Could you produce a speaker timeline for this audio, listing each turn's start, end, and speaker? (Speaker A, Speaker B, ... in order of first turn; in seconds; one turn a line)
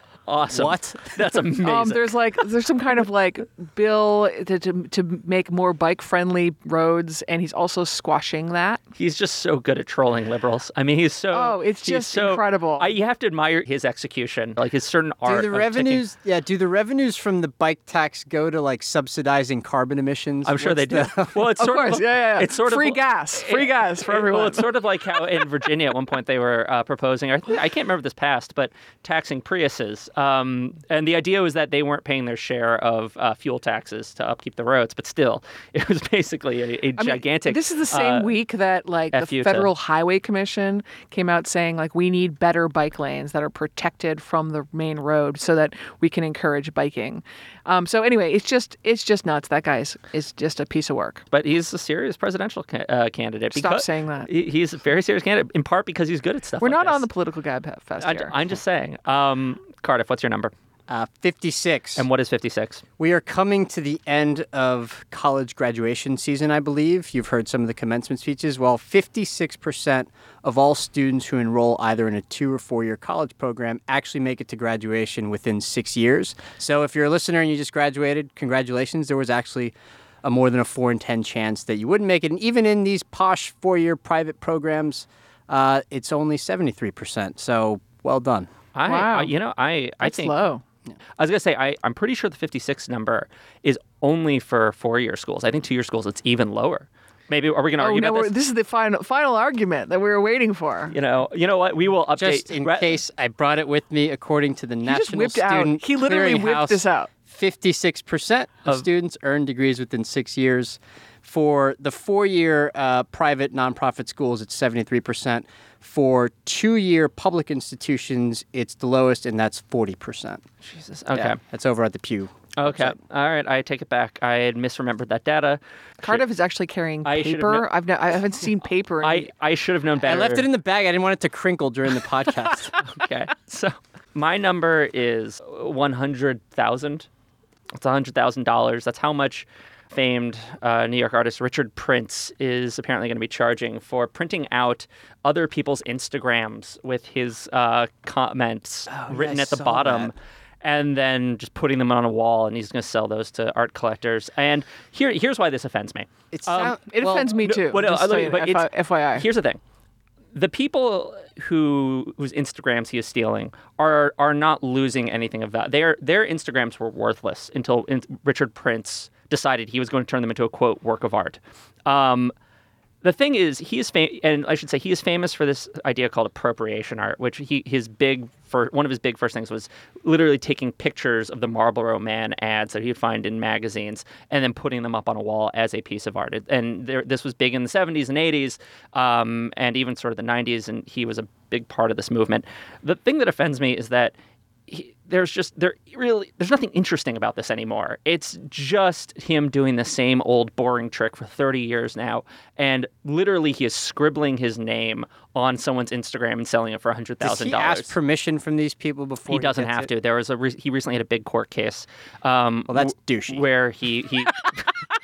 Speaker A: 0.3-2.1
Speaker B: 0.5-1.3
Speaker C: 1.6-8.8
Speaker A: 9.0-16.0
Speaker C: 11.3-12.9
Speaker B: 15.2-21.5
Speaker A: 20.4-38.3
Speaker C: 21.6-24.7
Speaker C: 37.0-51.2
Speaker A: 39.1-39.7
Speaker A: 51.3-57.0
Speaker C: 53.5-54.3
Speaker C: 56.6-58.4
Speaker A: 58.0-60.5
Speaker B: 60.9-62.0
Speaker A: 62.0-62.8
Speaker B: 63.0-88.5
Speaker A: 88.7-90.3
Speaker C: 88.8-89.3
Speaker C: 90.0-90.6
Speaker A: 91.2-98.3
Speaker C: 97.8-101.0
Speaker A: 100.9-103.0
Speaker B: 102.2-120.4
Speaker C: 104.8-107.1
Speaker A: 120.6-121.4
Speaker B: 121.1-123.0
Speaker A: 122.5-126.2
Speaker C: 126.0-129.3
Speaker A: 127.0-127.7
Speaker A: 129.0-130.4
Speaker B: 130.0-132.8
Speaker A: 132.8-137.1
Speaker A: 137.8-156.8
Speaker B: 148.9-150.1
Speaker B: 156.3-157.4
Speaker C: 156.8-159.3
Speaker A: 157.4-159.6
Speaker A: 160.3-172.3
Speaker A: 173.0-194.1
Speaker A: 194.7-207.9
Speaker B: 207.2-209.9
Speaker A: 209.3-214.7
Speaker B: 212.7-213.4